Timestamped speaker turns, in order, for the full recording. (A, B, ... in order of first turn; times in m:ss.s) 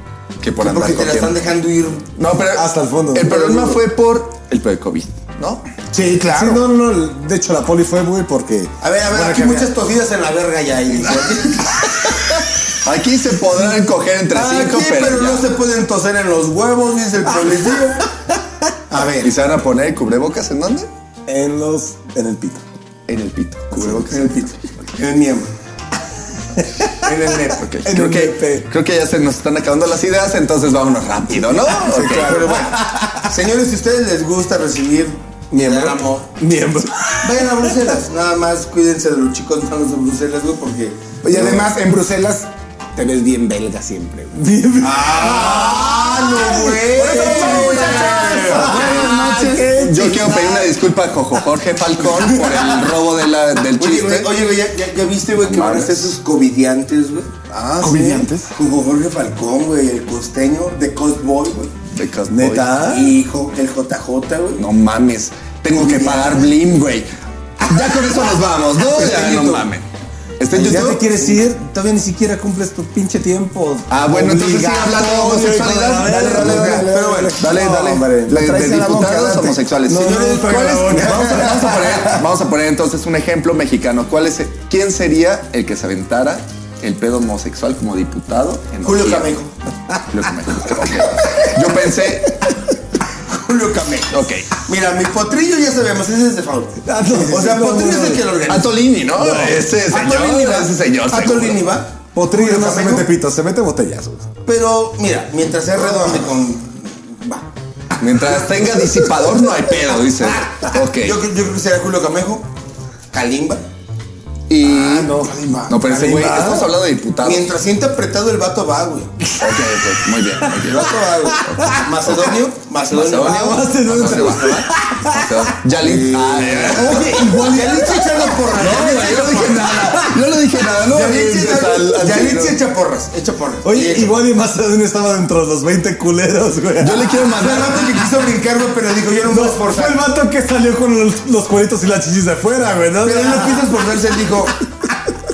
0:00.4-0:01.5 A
0:00.6-0:02.1 B
0:02.2-0:05.7 A
0:02.5-0:03.4 C
0:03.2-0:03.8 B
0:05.9-0:06.7 D
0:05.9-0:09.7 C
0:08.8-0:12.1 B
0:12.2-0:15.5 A
0:14.3-0:18.0 B
0:18.9-0:19.3 B
0:19.2-0:20.9 A
0:21.3-0:22.6 C
0:23.1-0:24.8 A
0:23.9-0:25.5 B
0:27.0-0:27.6 B
0:27.6-0:32.4 A
0:27.8-0:28.7 C
0:31.5-0:33.2 C
0:32.1-0:36.3 B
0:35.5-0:37.8 C
0:37.2-0:41.0 B
0:41.2-0:44.4 D
0:41.3-0:41.7 A
0:44.3-0:50.7 C
0:44.8-0:48.6 B
0:46.9-0:49.8 D
0:47.4-0:54.3 A
0:52.0-0:52.4 C
0:53.7-0:57.3 B
0:55.4-0:56.1 A
0:57.5-0:58.2 A
0:57.8-0:58.5 D
0:58.4-1:01.7 B
1:01.9-1:02.8 A
1:02.3-1:03.1 C
1:02.8-1:04.6 B
1:04.6-1:07.1 A
1:05.7-1:06.6 B
1:07.6-1:09.8 A
1:08.8-1:09.7 B
1:10.4-1:11.1 A
1:10.5-1:11.4 B
1:10.5-1:18.4 C
1:13.9-1:29.3 A
1:16.2-1:17.4 D
1:16.8-1:17.4 B
1:18.3-1:19.6 D
1:19.9-1:22.0 C
1:20.0-1:21.5 B
1:28.8-1:29.5 B
1:30.1-1:32.8 A
1:33.3-1:43.1 B
1:34.1-1:34.6 A
1:36.8-1:38.2 C
1:38.5-1:41.7 A
1:42.1-1:44.2 C
1:44.4-1:47.4 B
1:48.0-1:51.2 A
1:51.0-1:52.4 B
1:53.1-1:53.6 B
1:54.5-1:57.5 A
1:54.6-1:55.8 D
1:55.8-1:56.6 C
1:56.0-1:56.6 B
1:57.2-1:59.1 B
1:59.4-2:00.9 A
2:00.6-2:04.7 B
2:00.8-2:01.9 C
2:01.4-2:02.2 A
2:02.9-2:07.4 A
2:03.1-2:05.4 C
2:05.8-2:09.8 B
2:06.7-2:08.8 C
2:08.5-2:12.6 A
2:09.8-2:10.1 C
2:10.8-2:14.2 B
2:13.6-2:17.4 C
2:16.8-2:17.9 A
2:17.4-2:20.0 B
2:19.3-2:23.8 C
2:23.0-2:24.5 B